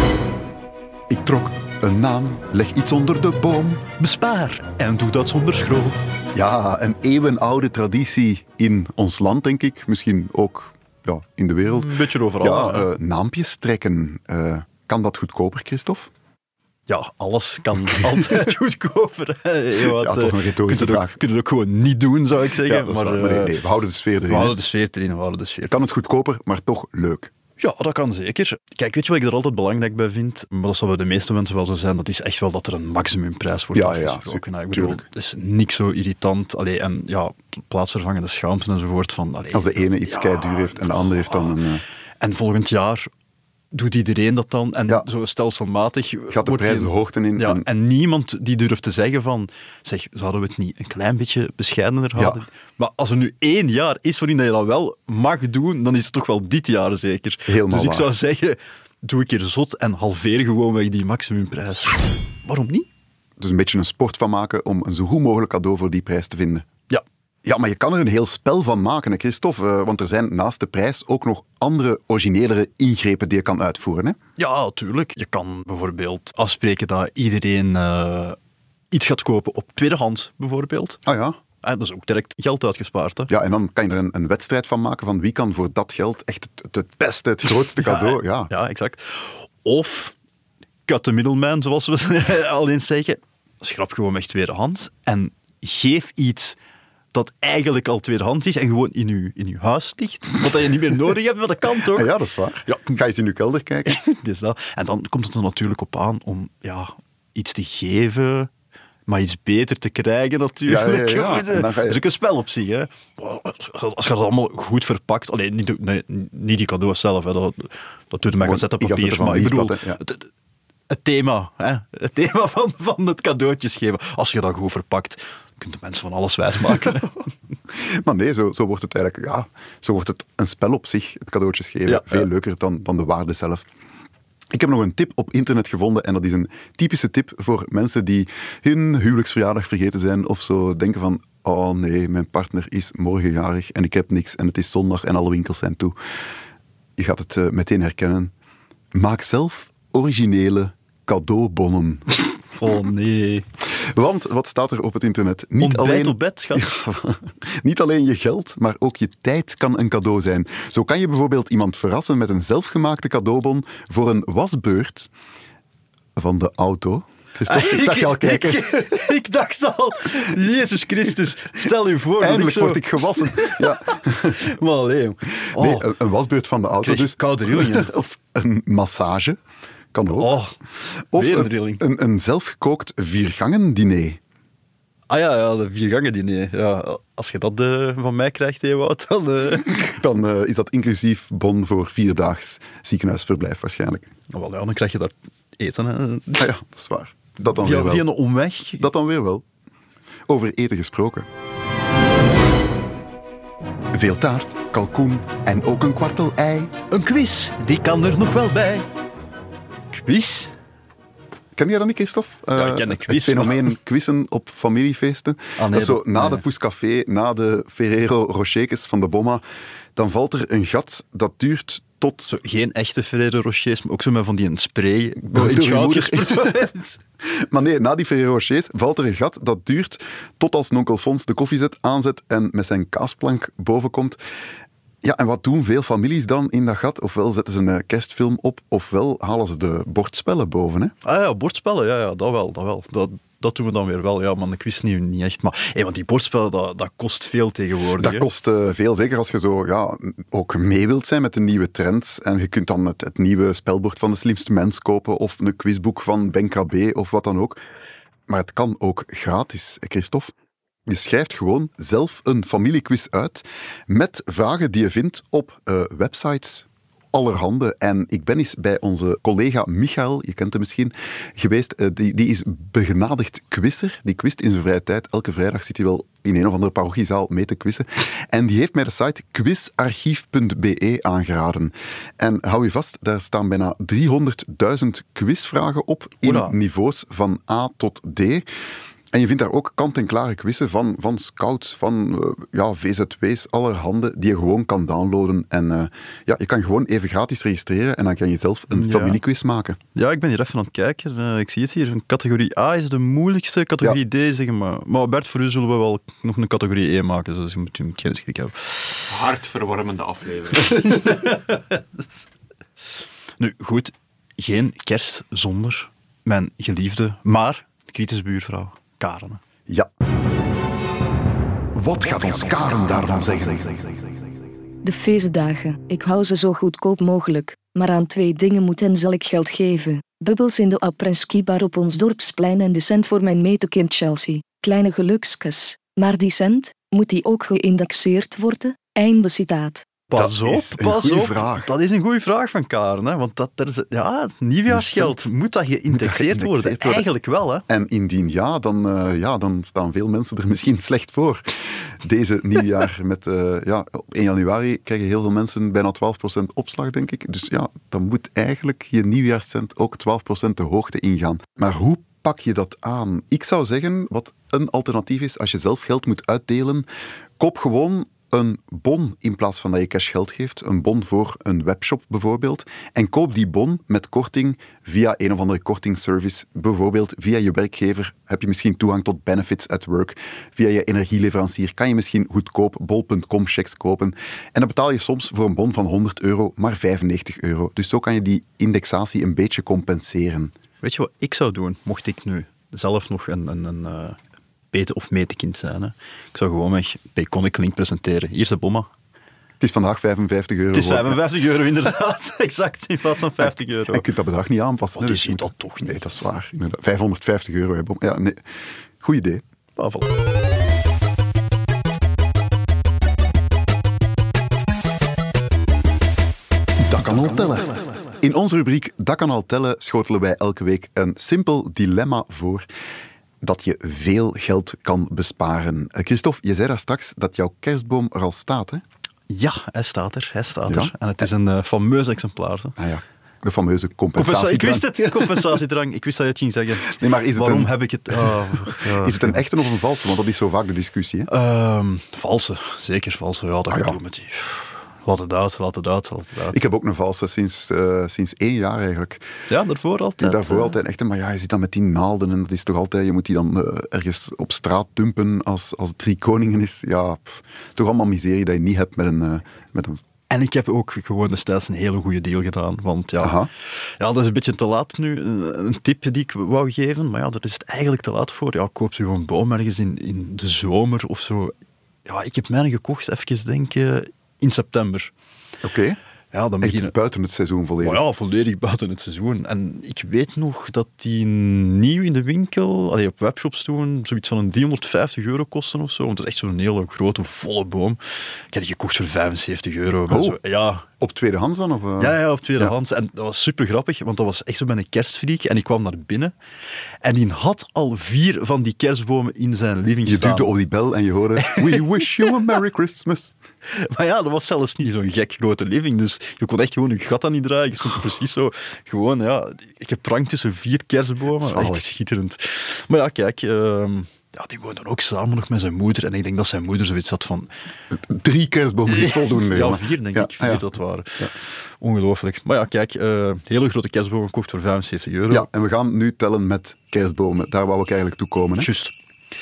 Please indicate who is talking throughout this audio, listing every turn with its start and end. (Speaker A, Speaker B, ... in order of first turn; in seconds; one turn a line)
Speaker A: 1.1-3.8
Speaker B: 4.0-6.0
Speaker A: 6.3-16.1
Speaker B: 11.6-12.9
Speaker B: 16.9-23.6
Speaker A: 19.8-21.2
Speaker A: 22.6-24.6
Speaker B: 24.3-25.7
Speaker A: 25.7-27.3
Speaker B: 27.6-41.5
Speaker A: 33.7-35.0
Speaker A: 39.5-41.8
Speaker B: 42.2-43.1
Speaker B: 43.7-62.9
Speaker A: 46.3-47.6
Speaker A: 52.1-52.5
Speaker A: 57.5-58.1
Speaker A: 63.4-66.7
Speaker A: 67.4-74.2
Speaker B: 74.4-78.4
Speaker B: 78.9-81.0
Speaker A: 81.1-81.4
Speaker B: 81.6-83.3
Speaker A: 83.3-88.5
Speaker B: 87.8-90.1
Speaker B: 90.9-96.6
Speaker B: 97.1-102.1
Speaker A: 101.9-104.0
Speaker B: 102.7-103.0
Speaker B: 103.9-108.5
Speaker B: 109.1-120.3
Speaker A: 110.7-112.0
Speaker A: 118.4-120.0
Speaker B: 120.9-127.2
Speaker A: 127.7-133.6
Speaker B: 131.9-132.2
Speaker A: 134.5-145.9
Speaker A: 147.0-148.3
Speaker A: 148.9-152.1
Speaker B: 152.6-153.5
Speaker A: 153.7-165.1
Speaker B: 155.6-156.7
Speaker A: 166.2-168.8
Speaker B: 167.5-175.9
Speaker A: 172.2-174.4
Speaker A: 175.6-179.4
Speaker B: 176.8-177.9
Speaker A: 179.9-180.3
Speaker B: 180.1-180.6
Speaker A: 181.1-184.2
Speaker B: 181.1-181.8
Speaker B: 185.1-189.9
Speaker A: 189.7-194.1
Speaker B: 194.3-196.5
Speaker A: 196.4-198.1
Speaker B: 197.5-198.9
Speaker A: 198.8-199.4
Speaker A: 200.3-201.3
Speaker A: 203.9-206.7
Speaker B: 206.9-208.9
Speaker B: 209.9-210.5
Speaker A: 211.6-219.4
Speaker B: 212.6-213.8
Speaker B: 215.6-216.4
Speaker A: 219.9-222.3
Speaker B: 222.2-227.0
Speaker A: 225.2-226.6
Speaker A: 227.2-234.2
Speaker A: 235.0-240.9
Speaker B: 241.0-248.3
Speaker A: 248.0-257.6
Speaker A: 258.3-260.3
Speaker A: 260.9-288.4
Speaker B: 286.2-286.6
Speaker A: 289.1-299.8
Speaker B: 298.7-299.2
Speaker B: 299.9-309.0
Speaker C: 309.1-311.3
Speaker B: 313.4-319.4
Speaker A: 321.8-324.1
Speaker D: 324.8-339.9
Speaker B: 340.1-347.6
Speaker A: 340.1-341.7
Speaker A: 344.7-345.3
Speaker A: 345.9-347.1
Speaker A: 347.7-366.9
Speaker A: 367.4-390.6
Speaker B: 390.8-394.2
Speaker B: 394.7-398.9
Speaker A: 399.6-401.2
Speaker B: 400.7-404.1
Speaker A: 403.9-408.4
Speaker B: 404.9-406.0
Speaker A: 409.0-409.4
Speaker B: 409.8-410.1
Speaker A: 416.8-422.6
Speaker A: 423.4-428.8
Speaker B: 429.3-432.8
Speaker A: 430.7-430.9
Speaker A: 432.8-435.4
Speaker B: 434.1-439.4
Speaker A: 436.9-441.3
Speaker B: 441.3-446.6
Speaker A: 443.7-444.0
Speaker A: 446.5-449.2
Speaker B: 449.5-450.8
Speaker A: 450.2-460.0
Speaker B: 460.3-471.5
Speaker A: 463.2-463.5
Speaker B: 472.1-475.1
Speaker A: 475.6-476.0
Speaker B: 476.3-476.9
Speaker A: 476.6-478.0
Speaker B: 477.8-488.0
Speaker B: 488.5-490.9
Speaker A: 490.1-492.7
Speaker B: 492.0-496.3
Speaker B: 497.0-500.5
Speaker A: 500.1-503.4
Speaker B: 501.4-502.3
Speaker B: 503.7-517.5
Speaker A: 511.4-511.9
Speaker A: 517.9-520.6
Speaker B: 518.9-525.5
Speaker A: 525.3-528.7
Speaker B: 528.6-528.9